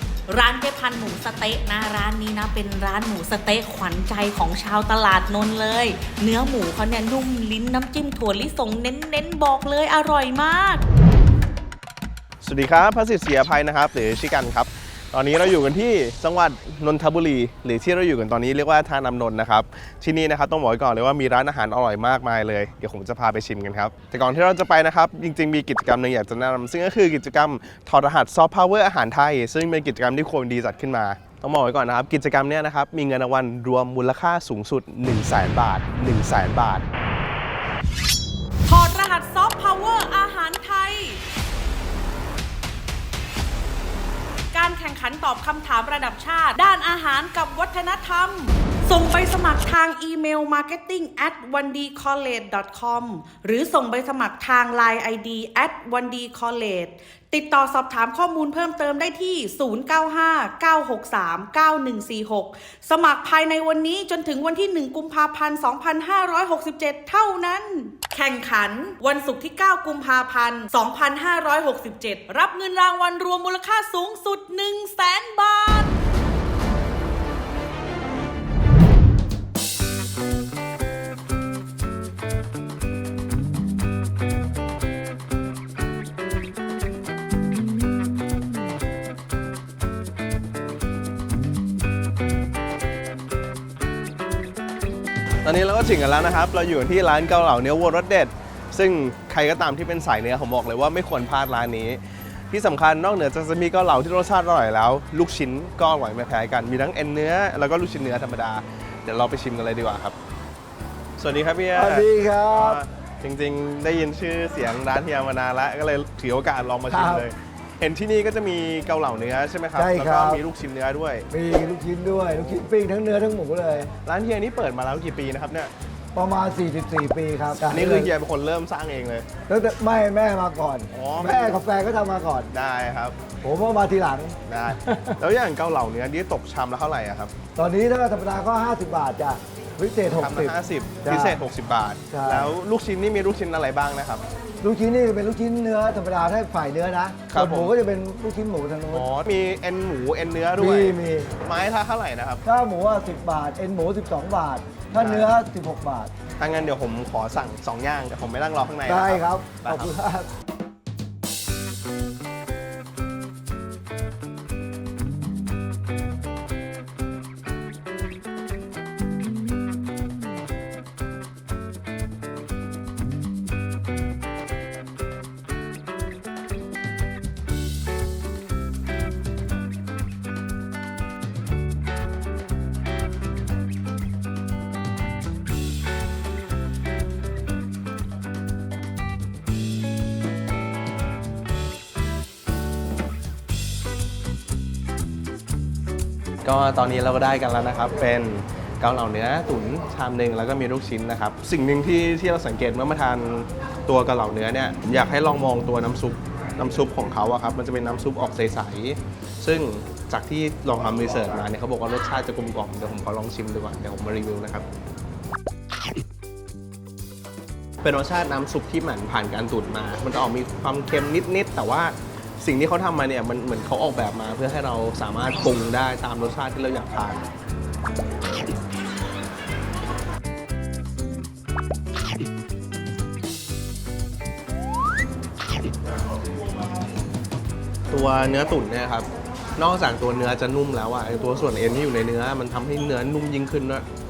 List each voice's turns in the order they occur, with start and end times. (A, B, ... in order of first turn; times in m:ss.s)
0:00.3-0:10.8 A
0:12.4-0:36.9 B
0:38.7-0:41.2 A
0:44.5-1:15.9 A
1:35.4-1:50.2 B
1:51.2-2:01.3 B
1:51.7-1:52.8 C
1:56.9-1:57.3 C
1:59.8-2:00.4 C
2:01.3-2:03.9 C
2:02.3-2:02.6 B
2:04.0-2:05.7 B
2:06.2-2:08.1 C
2:07.5-2:09.3 B
2:09.5-2:12.5 C
2:10.9-2:11.6 B
2:12.5-2:13.2 B
2:13.4-2:15.2 C
2:14.5-2:17.3 B
2:17.6-2:21.4 C
2:20.1-2:24.2 B
2:22.1-2:22.5 C
2:24.6-2:29.1 C
2:27.3-2:27.7 B
2:28.9-2:32.4 B
2:30.6-2:31.3 C
2:32.4-2:36.1 C
2:34.9-2:35.4 B
2:36.4-2:39.9 B
2:38.9-2:40.3 C
3:16.4-3:34.7 B
3:37.8-3:47.2 B
3:57.9-4:03.9 B